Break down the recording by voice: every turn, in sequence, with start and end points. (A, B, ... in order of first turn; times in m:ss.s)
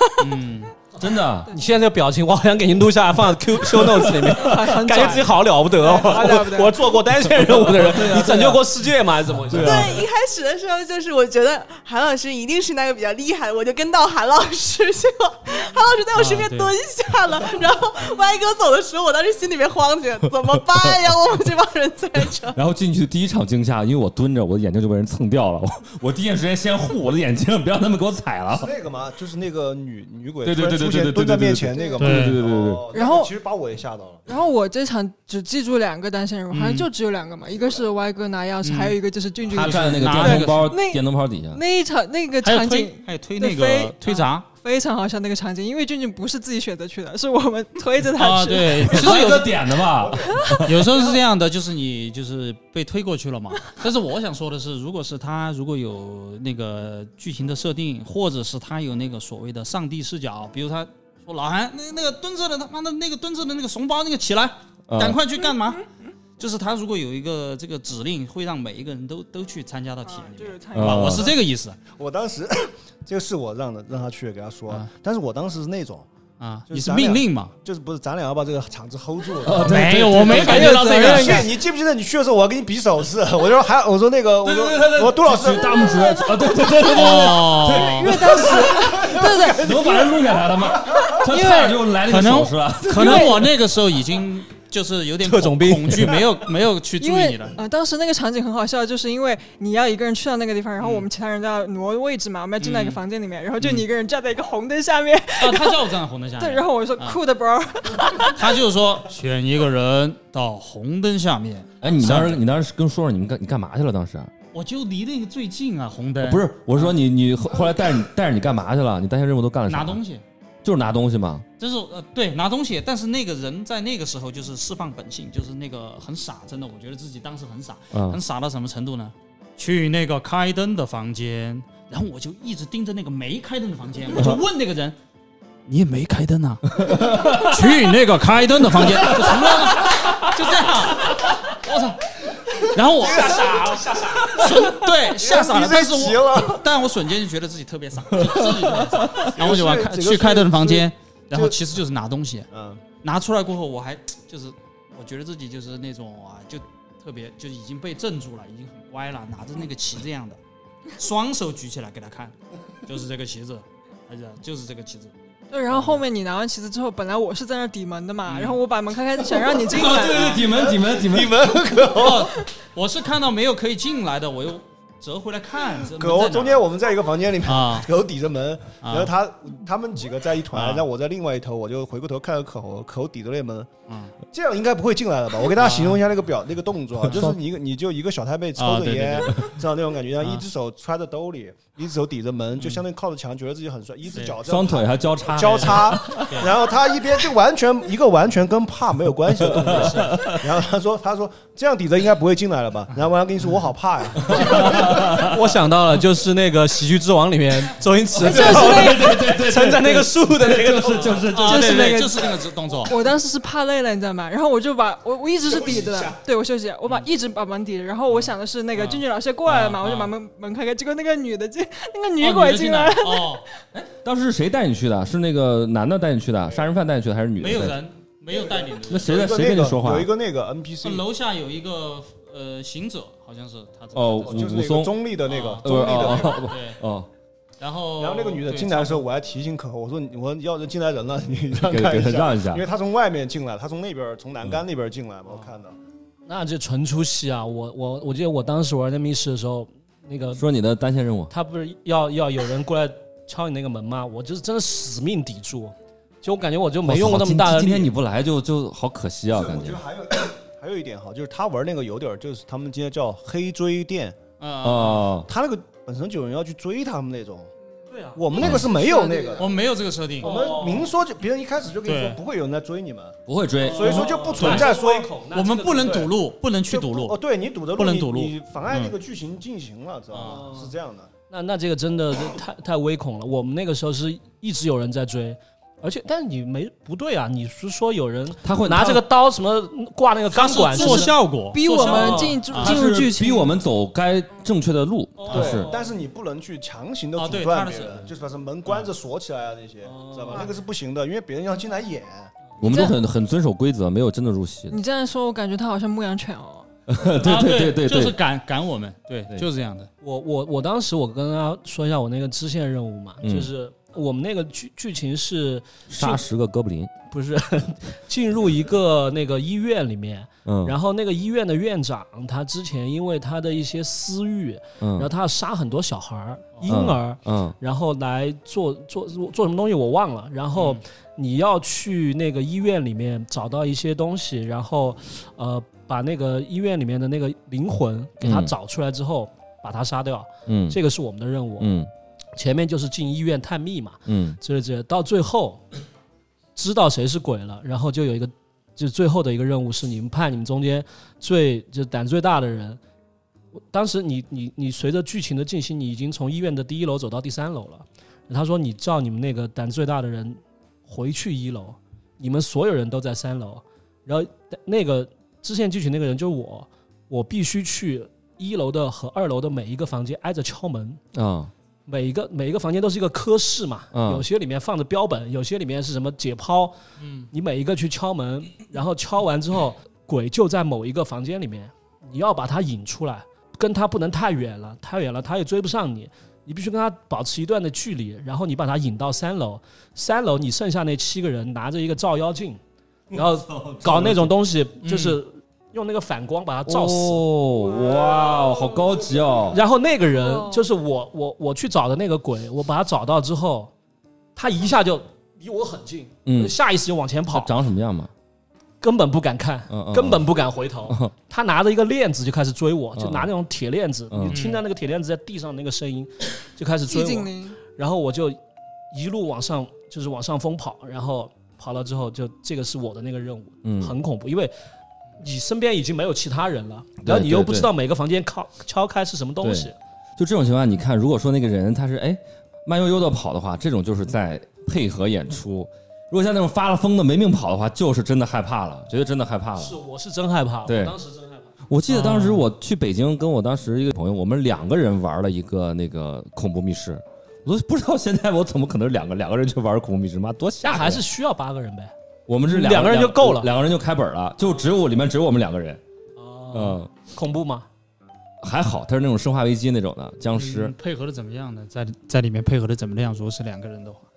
0:00.2-0:00.8 A
0:01.0-0:01.5 B
0:01.5-0:10.0 C
0:03.7-0:04.6 B
0:04.4-0:07.0 D
0:07.4-0:08.7 B
0:09.5-0:10.0 B
0:09.5-0:22.6 E
0:16.2-0:16.7 A
0:22.6-0:28.7 B
0:28.5-0:34.2 F
0:30.4-0:32.9 B
0:31.8-0:32.1 D
0:32.0-0:32.4 A
0:32.9-0:33.3 D
0:34.3-0:49.1 D
0:36.5-0:36.9 A
0:38.6-0:39.0 A
0:39.5-0:41.6 B
0:39.5-0:40.7 A
0:42.4-0:44.5 A
0:48.2-0:49.6 A
0:48.9-0:50.9 B
0:50.2-0:51.1 D
0:50.6-1:05.8 A
1:04.9-1:05.2 B
1:06.4-1:11.8 A
1:10.0-1:11.4 D
1:10.7-1:11.3 B
1:11.9-1:16.1 F
1:16.4-1:17.5 A
1:16.7-1:26.3 F
1:19.4-1:21.4 B
1:19.6-1:21.6 A
1:24.4-1:33.3 B
1:26.6-1:27.0 D
1:26.9-1:28.2 A
1:27.7-1:30.2 D
1:28.1-1:30.1 F
1:30.9-1:31.1 F
1:30.9-1:31.9 D
1:32.1-1:37.6 A
1:32.9-1:33.5 D
1:35.2-1:36.2 C
1:37.0-1:48.5 D
1:40.8-1:41.1 A
1:42.6-1:43.0 A
1:43.6-1:43.9 A
1:45.4-1:47.2 A
1:48.2-1:52.4 A
1:51.8-1:54.3 B
1:54.5-1:57.0 A
1:56.2-2:00.0 B
1:59.7-2:00.2 A
2:00.6-2:01.5 B
2:01.6-2:15.0 A
2:07.9-2:08.2 B
2:15.7-2:32.5 A
2:16.7-2:17.7 B
2:18.8-2:19.4 B
2:22.9-2:23.6 F
2:23.0-2:24.4 C
2:24.5-2:26.7 F
2:28.1-2:29.3 B
2:29.2-2:31.6 F
2:32.5-2:32.8 F
2:33.0-2:40.4 A
2:41.0-2:42.4 A
2:42.9-2:45.1 A
2:45.5-2:50.5 D
2:45.7-2:46.0 A
2:48.2-2:48.6 A
2:49.7-2:51.4 B
2:50.3-2:52.4 F
2:51.9-2:56.7 A
2:55.9-3:03.7 F
2:57.4-2:57.9 A
2:58.8-2:59.1 A
3:00.5-3:00.9 A
3:03.9-3:04.1 A
3:04.3-3:24.9 F
3:05.6-3:06.0 A
3:07.1-3:07.4 B
3:08.6-3:09.6 A
3:10.2-3:10.4 A
3:12.6-3:12.8 A
3:14.5-3:16.4 B
3:15.4-3:16.5 A
3:19.3-3:20.5 B
3:19.7-3:20.0 C
3:24.2-3:25.4 B
3:24.4-3:31.3 C
3:28.2-3:32.0 B
3:28.2-3:29.3 D
3:31.3-3:33.0 A
3:31.4-3:43.5 D
3:38.1-3:40.1 A
3:42.2-3:43.4 A
3:43.8-3:47.8 B
3:47.4-3:49.2 A
3:48.3-3:51.0 F
3:48.9-3:50.1 B
3:50.8-3:54.5 A
3:53.9-3:55.0 B
3:54.2-3:56.5 F
3:55.3-3:56.8 A
3:55.6-3:57.1 B
3:57.6-3:59.0 A
3:58.0-4:05.8 F
4:01.6-4:02.6 B
4:06.3-4:10.4 C
4:10.4-4:11.3 B
4:11.3-4:17.9 C
4:16.8-4:19.8 B
4:19.3-4:24.2 F
4:24.4-4:25.1 A
4:24.6-4:25.3 B
4:25.3-4:27.5 F
4:27.9-4:28.2 C
4:28.2-4:29.5 F
4:28.7-4:29.4 D
4:29.4-4:30.4 A
4:30.2-4:33.2 F
4:30.2-4:30.9 C
4:31.8-4:32.2 A
4:33.3-4:34.5 B
4:33.7-4:36.1 C
4:33.7-4:35.1 F
4:33.8-4:34.8 A
4:35.3-4:37.2 A
4:36.7-4:41.1 F
4:37.8-4:38.9 A
4:40.1-4:40.4 A
4:40.2-4:40.7 C
4:41.3-4:51.2 C
4:48.4-4:49.0 B
4:50.3-4:52.8 A
4:50.7-4:53.6 D
4:51.9-4:52.4 C
4:52.6-4:55.7 B
4:55.2-4:55.9 C
4:55.3-5:02.3 F
4:57.2-4:58.1 A
4:59.8-5:00.6 C
5:02.6-5:04.8 B
5:02.6-5:03.0 D
5:04.7-5:06.7 D
5:06.9-5:08.2 B
5:07.2-5:09.9 A
5:10.0-5:16.2 C
5:13.2-5:13.5 B
5:15.9-5:16.9 B
5:17.1-5:41.8 C
5:20.5-5:20.8 B
5:24.8-5:25.1 B
5:26.6-5:27.6 B
5:30.6-5:30.8 A
5:38.2-5:38.5 B
5:40.5-5:40.8 B
5:41.6-5:41.9 B
5:42.4-5:45.6 C
5:44.1-5:44.4 B
5:46.6-5:52.8 C
5:53.5-6:11.0 C
6:11.1-6:11.5 B
6:11.9-6:16.8 C
6:13.9-6:14.3 B
6:17.0-6:17.3 A
6:17.3-6:37.3 C
6:33.6-6:34.3 B
6:34.8-6:35.2 A
6:36.7-6:39.6 B
6:39.5-6:43.7 C
6:40.2-6:40.7 D
6:44.4-6:47.5 C
6:46.2-6:46.6 B
6:47.3-6:48.1 B
6:48.8-6:58.4 C
6:49.7-6:50.3 B
6:50.9-6:51.1 B
6:53.0-6:53.3 B
6:54.1-6:54.4 B
6:54.3-6:54.6 A
6:56.9-6:57.6 D
6:58.9-7:04.5 C
7:03.6-7:04.0 B
7:05.2-7:09.8 C
7:07.0-7:07.7 B
7:09.4-7:19.8 B
7:19.6-7:21.5 C
7:20.7-7:21.0 B
7:21.7-7:31.0 B
7:21.9-7:22.4 A
7:30.6-7:33.5 C
7:32.3-7:35.8 B
7:36.2-7:37.7 C
7:36.5-7:36.9 B
7:38.4-7:40.8 B
7:40.3-7:44.1 A